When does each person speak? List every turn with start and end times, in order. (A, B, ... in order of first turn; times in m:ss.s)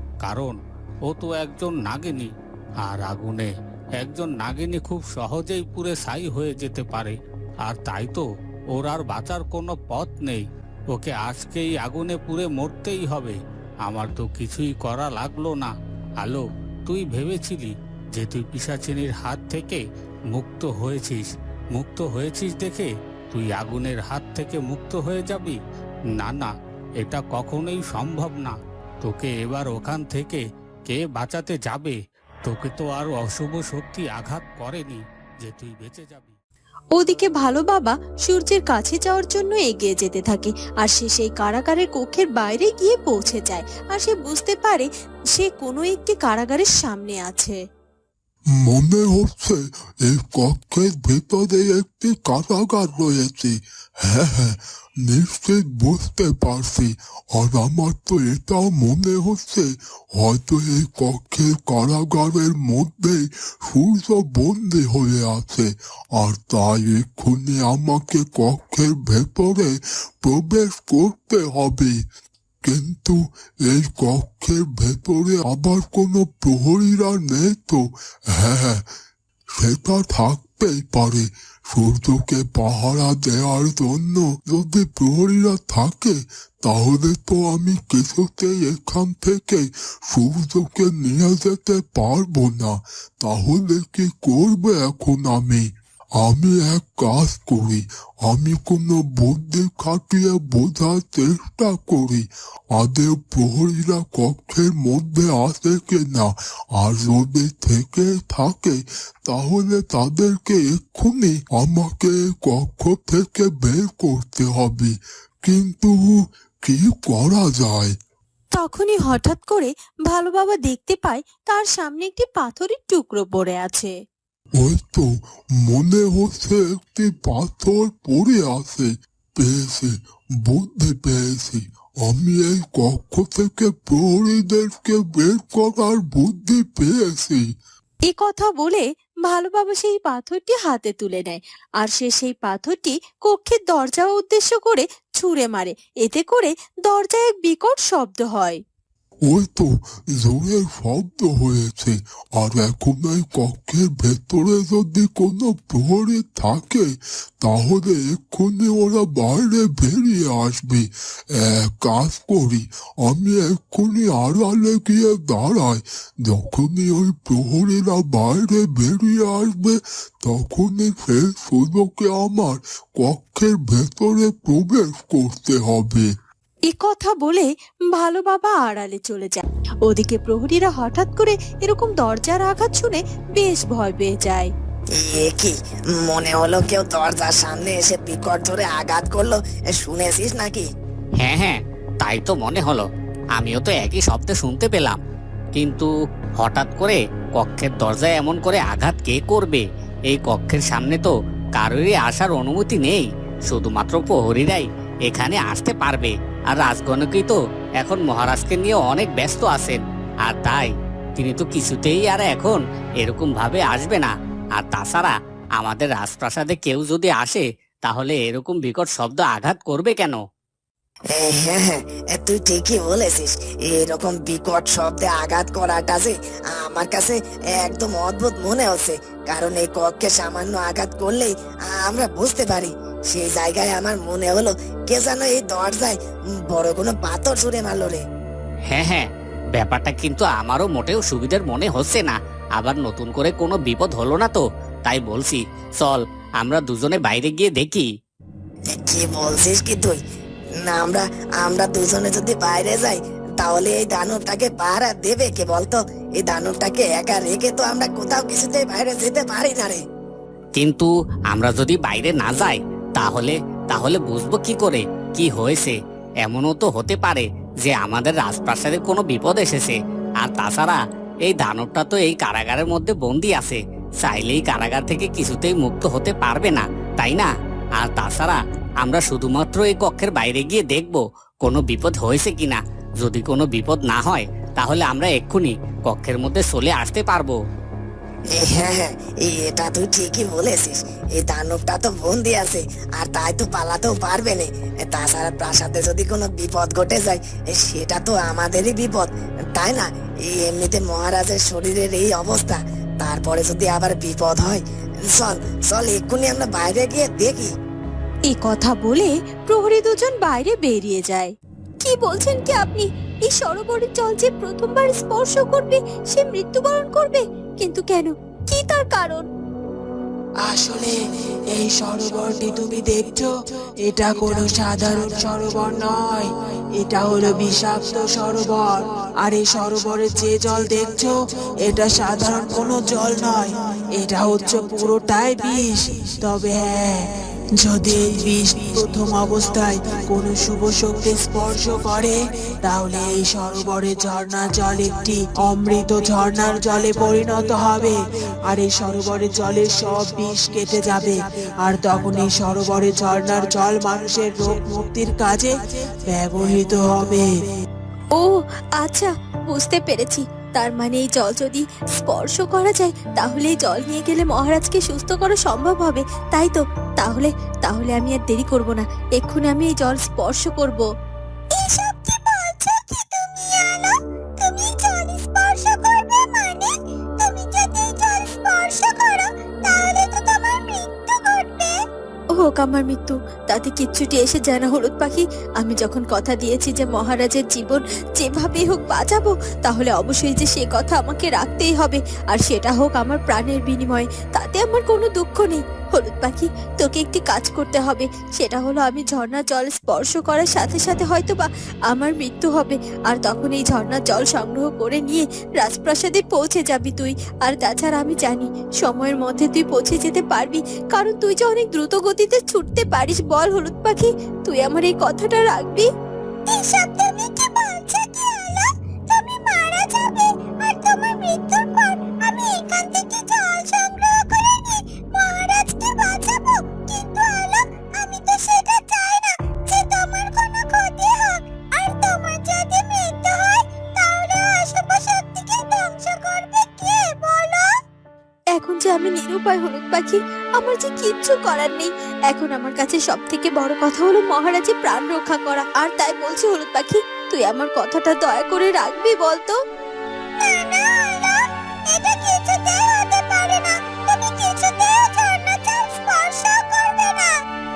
0:00.2-0:02.3 A
0:02.8-0:25.6 A
0:26.2-0:36.4 A
0:37.0-0:47.6 B
0:48.6-1:12.0 C
1:12.6-1:18.9 C
1:19.6-1:57.9 C
1:58.5-2:03.9 B
2:04.6-2:05.1 C
2:05.6-2:09.9 C
2:10.5-2:17.5 C
2:18.1-2:28.6 B
2:29.3-2:56.1 C
2:56.7-3:04.5 B
3:04.9-3:10.7 D
3:11.2-3:12.8 E
3:13.4-3:15.0 E
3:15.5-3:40.2 E
3:41.1-3:56.0 D
3:56.5-3:58.0 D
3:58.7-3:59.1 E
3:59.6-4:07.9 E
4:08.7-4:10.0 D
4:10.6-4:19.8 D
4:20.6-4:37.3 E
4:37.8-4:47.4 E
4:48.3-5:07.5 D
5:08.3-5:19.3 B
5:20.4-5:20.9 F
5:21.5-5:23.3 F
5:23.9-5:57.4 F
5:58.1-6:10.8 B
6:11.6-6:13.9 B
6:14.4-6:16.7 B
6:17.2-6:21.7 B
6:22.4-6:55.9 B
6:56.5-7:17.6 B
7:18.6-7:29.6 B
7:30.4-7:31.4 B
7:31.9-7:37.3 B